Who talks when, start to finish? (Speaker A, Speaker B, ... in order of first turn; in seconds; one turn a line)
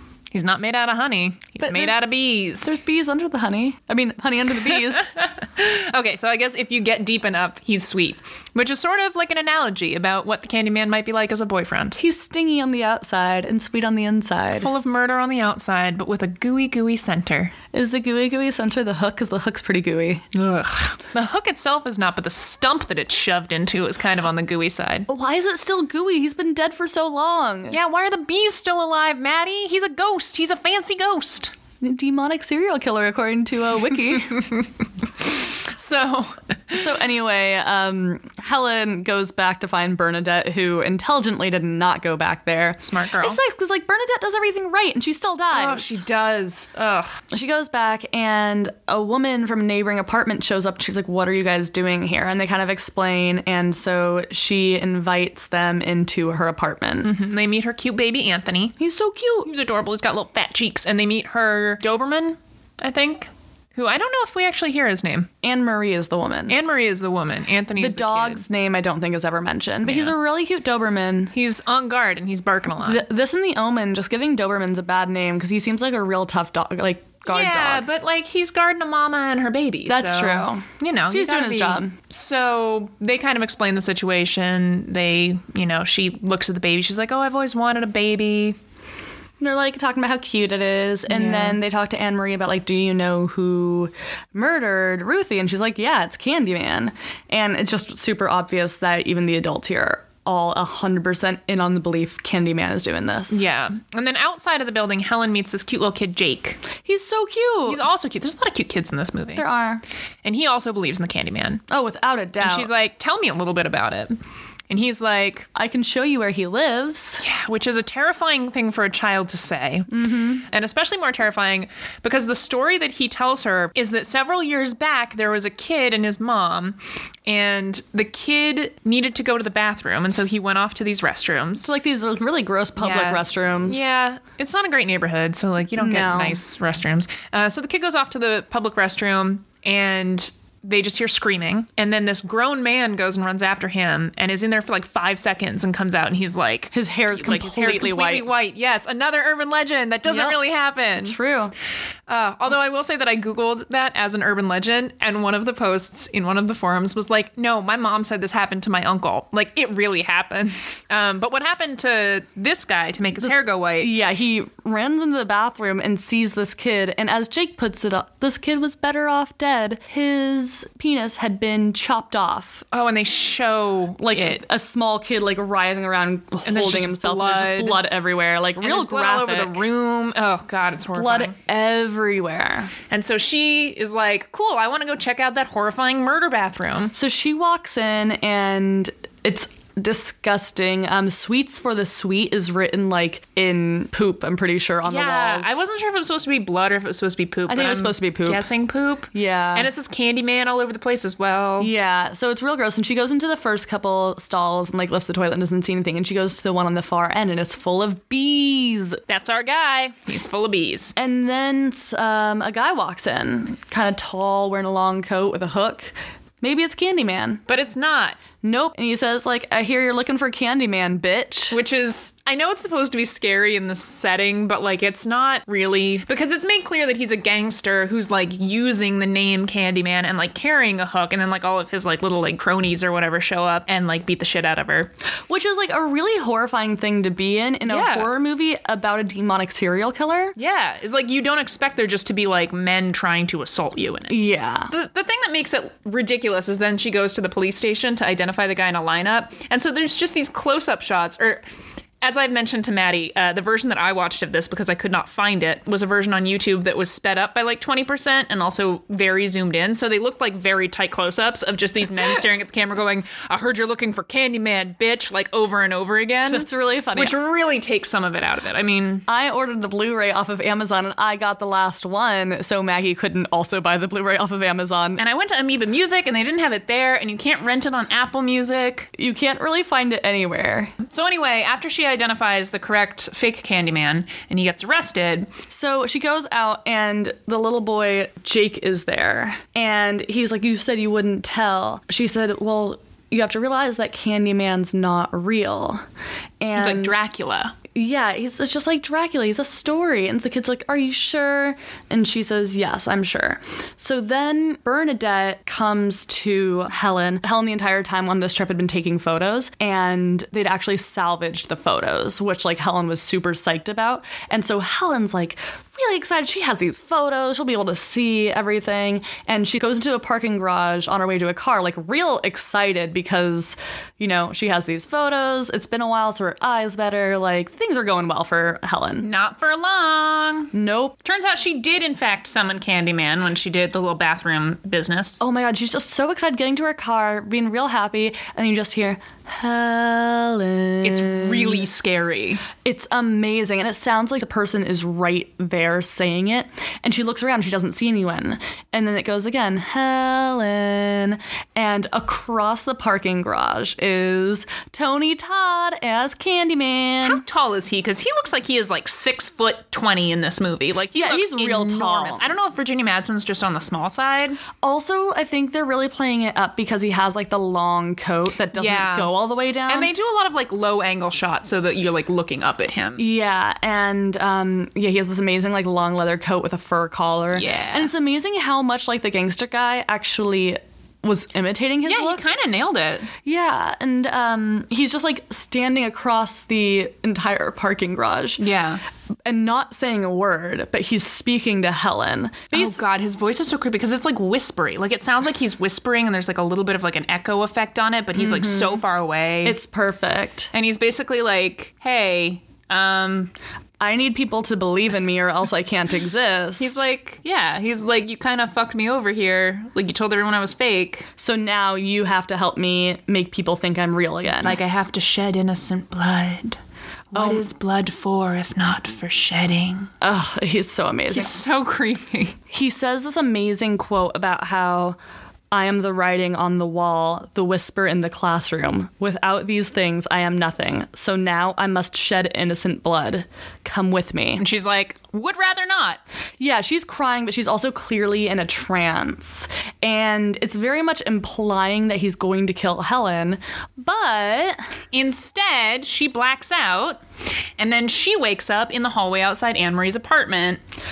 Speaker A: 0.3-2.8
Speaker B: 1.6-2.0
Speaker B: 2.6-5.1
Speaker A: 5.2-12.0
Speaker B: 12.0-14.7
Speaker A: 14.5-17.5
Speaker B: 17.7-20.7
Speaker A: 20.9-25.1
Speaker B: 25.1-27.8
Speaker A: 27.7-31.5
Speaker B: 31.8-34.4
Speaker A: 34.3-34.6
Speaker A: 35.2-36.8
Speaker B: 36.7-46.0
Speaker A: 42.8-43.4
Speaker A: 45.5-47.1
Speaker B: 47.3-57.1
Speaker A: 57.0-58.8
Speaker B: 58.8-59.5
Speaker A: 59.4-65.3
Speaker B: 65.4-66.6
Speaker A: 66.5-68.4
Speaker B: 67.8-71.3
Speaker A: 69.8-70.1
Speaker A: 71.3-73.0
Speaker B: 72.8-77.9
Speaker A: 77.2-88.6
Speaker B: 79.9-81.9
Speaker B: 89.4-103.4
Speaker A: 91.1-91.6
Speaker A: 103.3-106.6
Speaker B: 106.8-107.8
Speaker A: 107.7-109.4
Speaker B: 109.3-109.8
Speaker A: 110.2-111.6
Speaker B: 111.7-112.7
Speaker A: 112.4-114.1
Speaker A: 114.7-115.5
Speaker B: 115.5-117.2
Speaker A: 117.2-119.9
Speaker B: 119.9-120.4
Speaker A: 120.4-131.7
Speaker B: 131.6-133.9
Speaker A: 132.8-151.2
Speaker B: 135.8-136.4
Speaker B: 146.7-148.3
Speaker B: 150.1-150.4
Speaker B: 151.0-151.5
Speaker A: 152.1-163.9
Speaker B: 163.2-172.6
Speaker A: 172.7-174.4
Speaker B: 174.0-179.6
Speaker A: 176.4-177.8
Speaker A: 178.6-181.3
Speaker B: 180.9-182.7
Speaker A: 182.9-186.9
Speaker B: 186.9-195.6
Speaker A: 194.8-201.7
Speaker B: 197.5-198.4
Speaker B: 199.1-199.7
Speaker B: 201.6-209.0
Speaker A: 209.1-210.9
Speaker B: 210.9-217.4
Speaker A: 217.5-218.2
Speaker B: 218.4-221.6
Speaker A: 221.5-234.9
Speaker B: 235.3-240.3
Speaker A: 237.7-238.1
Speaker A: 240.3-251.4
Speaker B: 244.1-244.7
Speaker A: 252.0-269.0
Speaker B: 266.2-267.1
Speaker B: 269.1-275.0
Speaker A: 275.0-278.9
Speaker B: 278.9-280.7
Speaker A: 280.8-285.3
Speaker B: 285.5-295.8
Speaker B: 296.4-296.9
Speaker A: 296.5-297.5
Speaker B: 297.7-329.1
Speaker A: 329.0-330.5
Speaker B: 330.5-331.0
Speaker A: 331.0-335.2
Speaker B: 335.2-341.7
Speaker A: 340.8-342.4
Speaker B: 342.6-357.2
Speaker A: 357.0-364.4
Speaker B: 360.9-362.3
Speaker B: 364.6-369.9
Speaker A: 368.5-369.1
Speaker A: 369.7-373.0
Speaker B: 373.0-382.2
Speaker A: 377.3-377.9
Speaker A: 381.8-383.1
Speaker B: 383.2-388.4
Speaker A: 388.4-388.8
Speaker B: 389.2-392.8
Speaker A: 392.5-399.6
Speaker B: 398.1-398.8
Speaker B: 399.4-400.5
Speaker A: 400.5-403.3
Speaker B: 403.8-406.8
Speaker A: 406.6-411.1
Speaker B: 411.2-414.6
Speaker A: 414.3-416.6
Speaker A: 417.1-419.9
Speaker B: 417.1-417.4
Speaker B: 420.0-421.4
Speaker A: 421.1-422.4
Speaker B: 422.5-425.0
Speaker B: 425.5-434.4
Speaker A: 434.4-436.0
Speaker B: 436.4-444.6
Speaker A: 444.9-447.0
Speaker A: 447.6-450.6